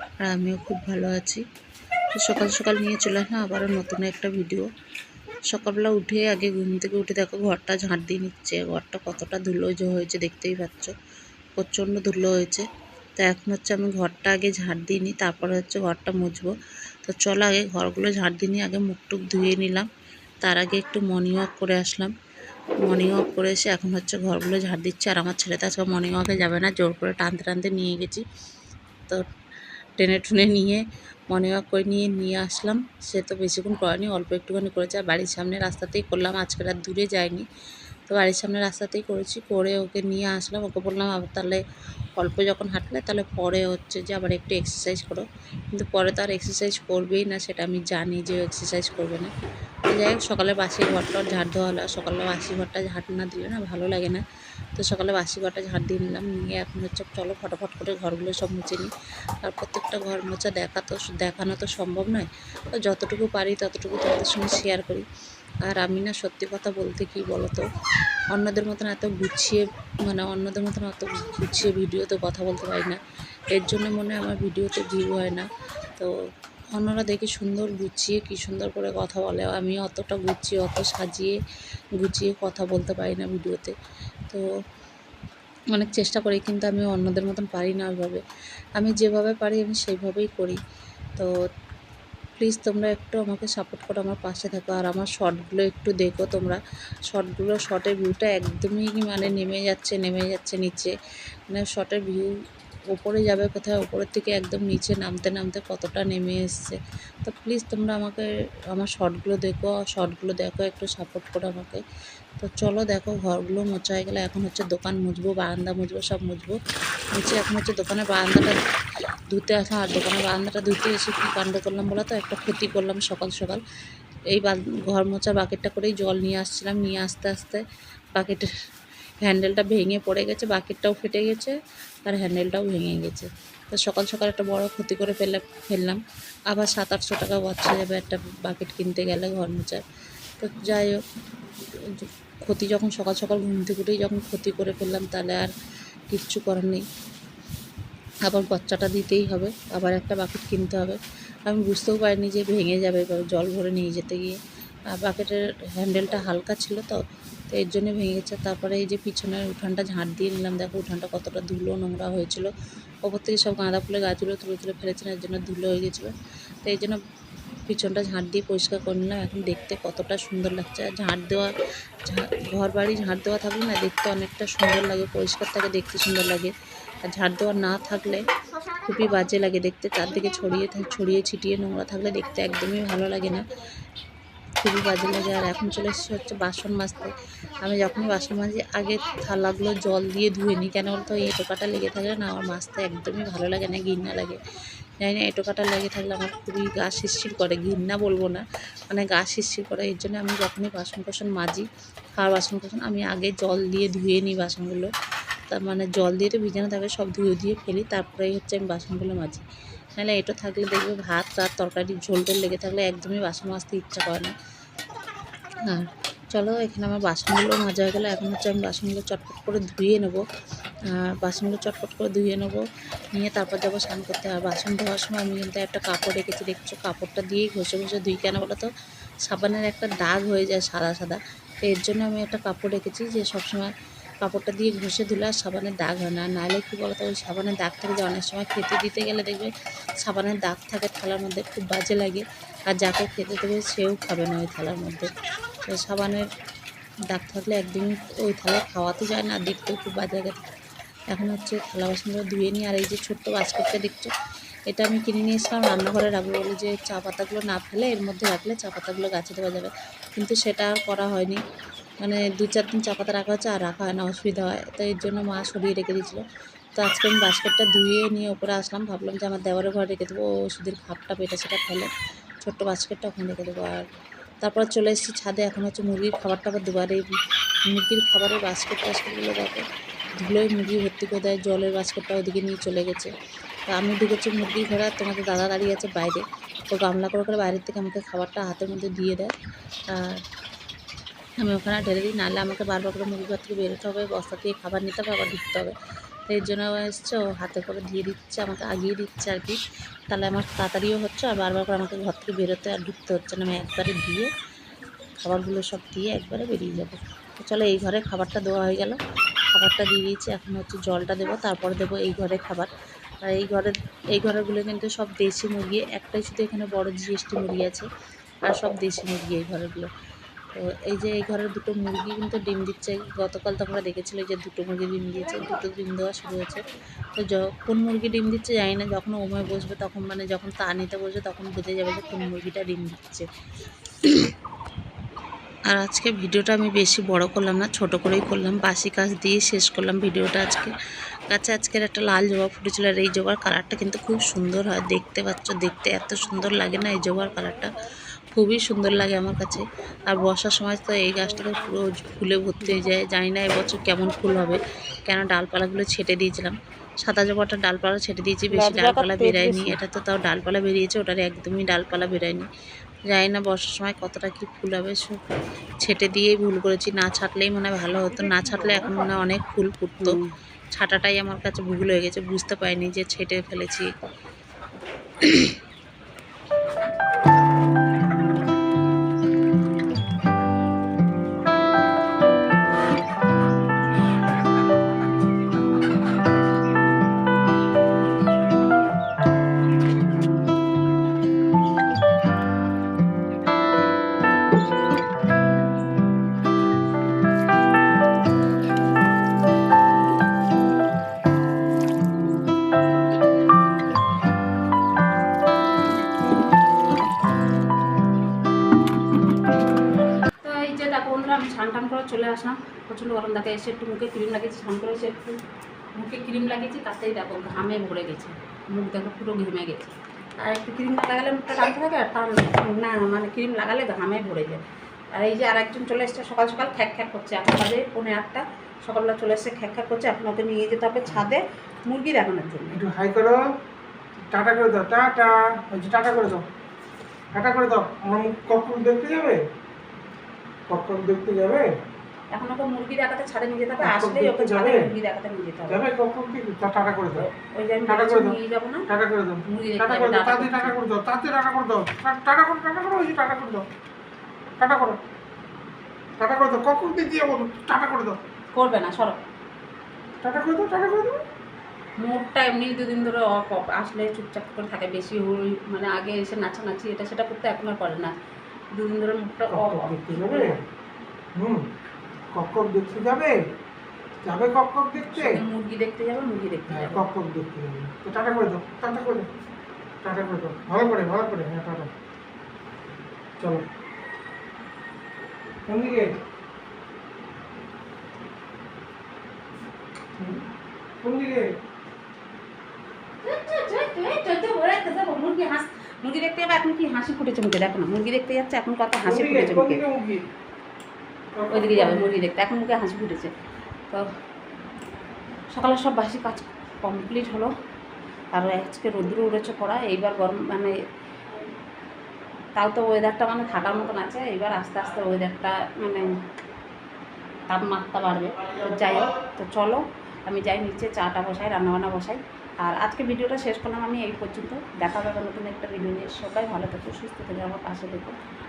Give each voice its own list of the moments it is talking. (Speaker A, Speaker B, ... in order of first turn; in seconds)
Speaker A: 0.2-1.4, 2.1-4.7, 5.5-10.9, 11.6-12.6, 13.2-16.5, 17.0-19.9, 20.4-22.1, 22.8-28.2, 30.0-37.4, 38.1-41.6, 42.1-49.3, 49.9-54.2, 54.8-58.9, 59.4-65.0, 65.6-67.6, 68.3-73.0, 73.5-75.4, 76.8-81.3, 82.0-83.7, 85.7-88.2, 88.8-90.6, 92.4-100.9, 101.5-102.3, 102.9-111.8, 112.4-116.6, 117.1-118.5, 119.3-123.6, 124.3-127.6, 128.1-128.5, 129.2-131.5, 132.1-136.0, 136.5-139.8, 140.4-141.0, 141.9-145.5, 146.1-146.8, 148.2-154.4, 154.9-162.5, 163.0-166.1, 166.6-167.0, 167.7-171.5, 172.0-176.5, 177.1-178.2, 178.8-183.5, 184.6-194.4, 195.0-204.9, 205.5-209.4, 210.0-214.3, 215.7-220.2, 221.0-222.6, 223.1-228.7, 229.2-239.5, 240.0-245.1, 245.7-246.2, 247.1-250.4, 251.1-254.1, 254.7-261.4, 262.0-266.2, 266.8-271.9, 272.4-273.8, 274.4-277.1, 277.7-279.6, 280.2-283.1, 283.7-289.3, 289.9-290.2, 291.4-295.7, 296.3-299.6, 300.1-304.3, 305.2-309.0, 309.5-312.7, 313.2-317.9, 318.5-319.9, 320.6-333.2, 334.0-334.3, 335.7-340.7, 341.3-347.8, 348.3-362.5, 363.1-365.1, 365.8-370.2, 370.7-373.9, 375.2-375.5
Speaker B: 358.5-359.8, 410.4-415.4, 415.9-432.8, 442.3-445.8, 447.2-448.9, 449.5-450.8, 458.5-459.2, 462.0-468.1, 468.7-470.6, 475.1-477.1, 493.2-499.8, 501.5-503.3, 505.5-507.5, 508.3-510.7, 512.5-516.1, 517.5-528.1
Speaker C: 368.1-369.0, 432.7-433.4, 434.3-436.4, 437.3-439.4, 440.7-441.6, 443.8-444.9, 445.7-447.2, 447.9-448.4, 448.9-453.6, 454.6-455.0, 456.2-458.2, 460.2-461.2, 469.5-470.6, 471.4-471.6, 472.3-473.4, 474.2-475.4, 476.7-479.3, 480.0-481.9, 483.4-483.6, 485.7-486.1, 490.2-490.4, 491.0-491.5, 499.0-500.3, 501.4-502.1